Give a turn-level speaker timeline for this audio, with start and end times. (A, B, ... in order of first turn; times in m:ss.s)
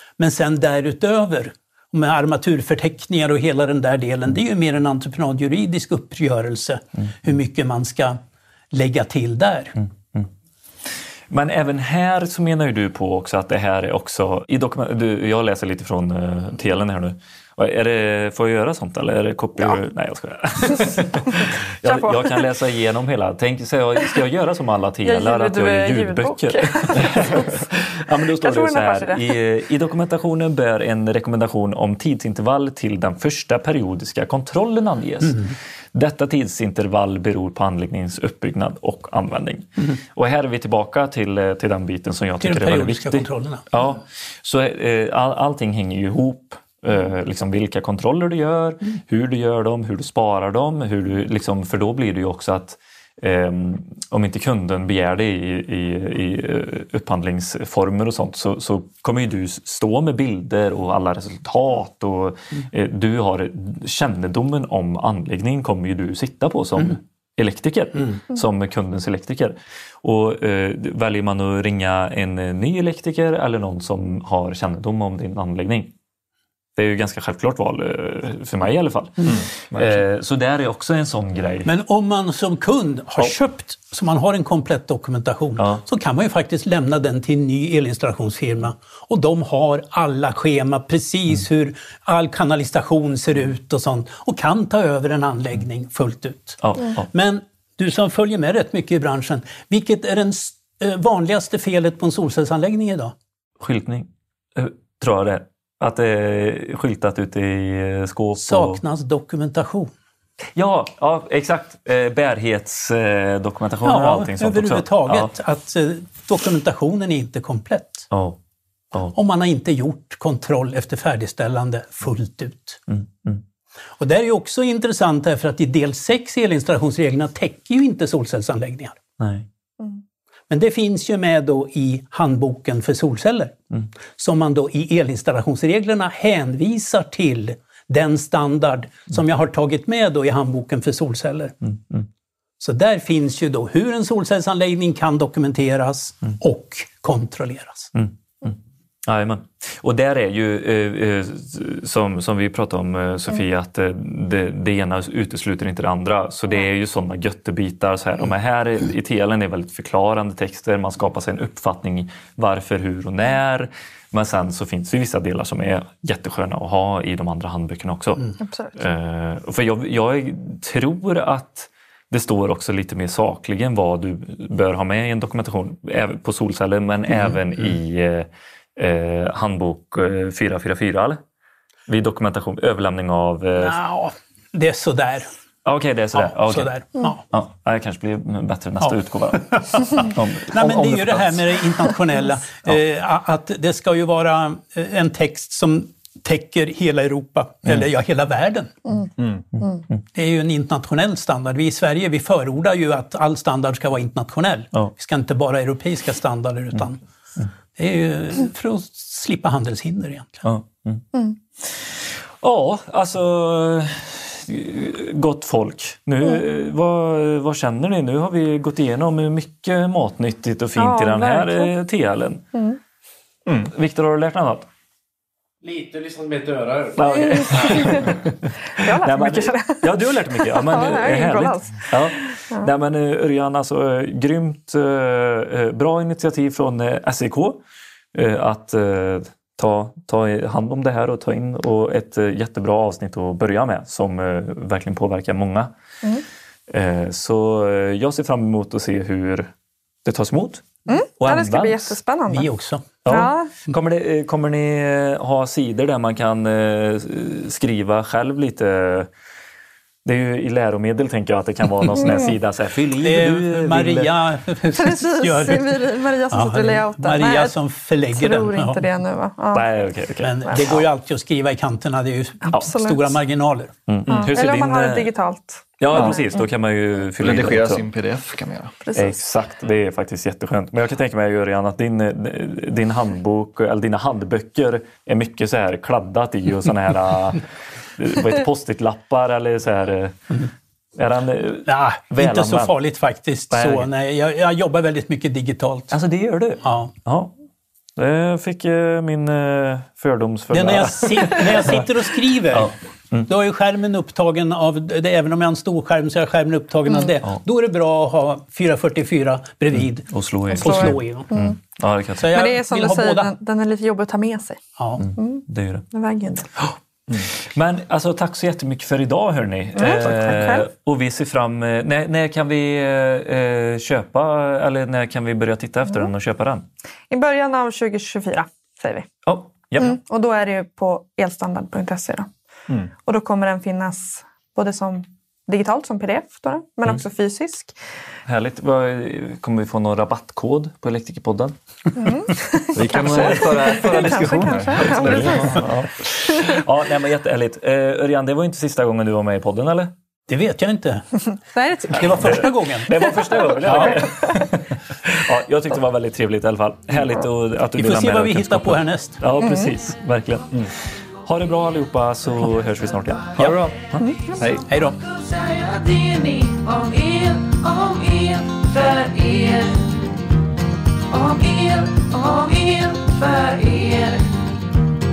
0:00.2-0:08.2 A
0:08.7-0:09.7 A
0:11.3-1:15.9 B
0:21.8-0:22.4 C
0:25.0-0:27.6 C
0:28.3-0:29.3 C
0:42.4-0:43.7 A
1:16.8-1:21.7 B
1:19.2-1:20.0 D
1:21.6-1:36.6 A
1:36.6-1:37.1 B
1:37.1-1:43.1 A
1:43.6-1:48.8 B
1:48.4-1:49.9 A
1:50.6-1:55.3 B
1:53.8-1:58.1 A
1:58.1-1:58.4 B
1:59.1-2:02.8 A
2:02.9-2:03.4 B
2:04.0-2:09.0 A
2:09.2-2:09.5 B
2:10.5-2:13.5 A
2:14.2-2:21.6 A
2:21.6-2:22.0 B
2:22.6-2:27.9 A
2:27.9-3:01.2 B
2:48.4-2:48.8 C
3:01.9-3:03.8 B
3:03.6-3:05.3 A
3:05.6-3:06.7 B
3:06.1-3:07.2 A
3:07.3-3:11.2 B
3:08.8-3:19.0 A
3:19.2-3:19.4 D
3:20.1-3:27.0 A
3:27.8-3:30.4 A
3:30.4-3:31.0 B
3:31.6-3:42.4 B
3:40.8-3:41.7 C
3:43.4-3:43.7 D
3:43.6-3:44.6 B
3:46.1-3:57.6 B
3:47.1-3:48.1 C
3:48.8-3:52.7 C
3:58.1-4:05.7 B
4:06.7-4:09.5 B
4:10.0-4:10.6 B
4:10.9-4:12.5 C
4:11.2-4:12.0 B
4:12.3-4:12.9 A
4:13.0-4:19.1 B
4:13.0-4:13.5 C
4:20.0-4:24.1 B
4:22.0-4:22.3 C
4:23.0-4:28.8 A
4:24.8-4:27.6 C
4:28.1-4:29.6 C
4:29.5-4:30.8 B
4:30.2-4:33.7 A
4:30.5-4:30.8 C
4:32.4-4:33.1 C
4:33.9-4:35.1 B
4:34.1-4:34.3 D
4:34.1-4:36.4 C
4:35.8-4:37.8 B
4:35.9-4:36.2 D
4:37.2-4:38.8 D
4:38.8-4:39.2 C
4:38.9-4:47.4 B
4:48.0-4:50.4 B
4:51.0-4:52.7 B
4:51.7-4:55.9 A
4:53.5-4:53.9 B
4:55.9-4:57.3 B
4:56.6-4:56.9 A
4:58.0-5:01.9 B
5:00.5-5:02.7 A
5:02.5-5:03.3 B
5:03.3-5:11.3 A
5:09.8-5:12.3 B
5:10.5-5:11.6 C
5:12.2-5:13.3 A
5:12.3-5:14.6 C
5:14.8-5:15.0 A
5:15.0-5:15.8 B
5:15.2-5:16.5 C
5:17.2-5:26.6 B
5:19.8-5:20.6 C
5:27.1-5:29.1 C
5:29.2-5:30.0 B
5:29.8-5:32.3 C
5:33.0-5:37.7 C
5:38.2-5:41.5 B
5:41.9-5:45.7 C
5:42.7-5:45.7 D
5:43.0-5:49.9 B
5:46.3-5:46.6 C
5:50.3-5:51.1 A
5:51.4-5:52.5 C
5:51.9-5:54.1 A
5:52.1-6:00.5 B
5:53.0-5:54.4 C
5:57.8-5:59.2 A
5:59.4-5:59.7 C
6:01.2-6:03.5 B
6:03.4-6:04.6 D
6:04.3-6:09.9 E
6:04.7-6:05.0 A
6:11.1-6:14.3 E